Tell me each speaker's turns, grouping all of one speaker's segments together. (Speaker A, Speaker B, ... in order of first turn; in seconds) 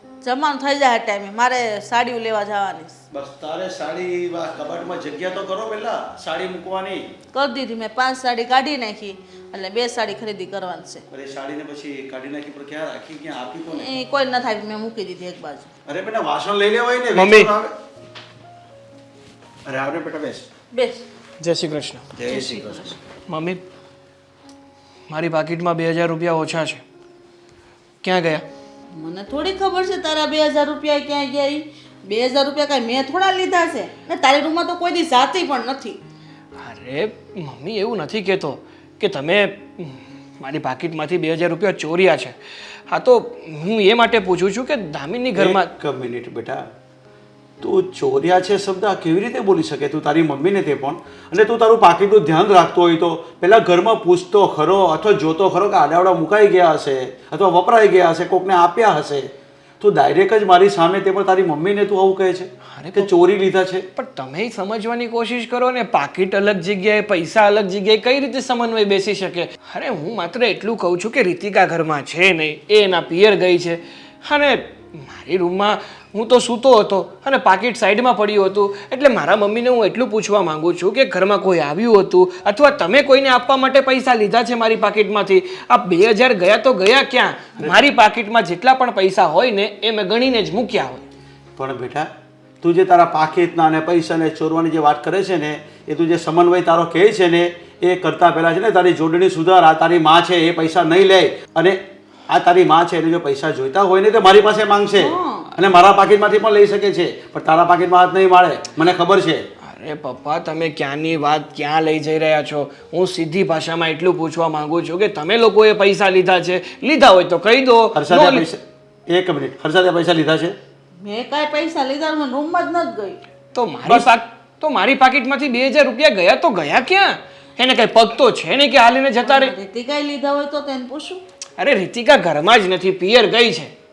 Speaker A: 0.2-3.0, 7.3-11.0, 13.7-15.7, 20.7-21.0, 22.4-22.7, 29.0-36.0, 105.0-105.5, 121.0-123.2, 129.2-131.2
Speaker B: 3.1-7.0, 11.1-13.9, 15.9-17.7, 19.6-20.5, 22.1-22.8, 45.3-46.6, 47.6-63.9, 91.5-92.1, 92.6-101.8, 102.3-109.4, 117.9-120.5, 123.8-124.1
Speaker C: 17.1-17.5, 21.4-22.4, 23.3-23.6, 25.1-26.8, 28.0-28.4, 36.6-42.4, 42.9-45.7, 62.7-63.1, 64.0-91.0, 109.7-118.5, 123.5-129.5, 131.6-133.7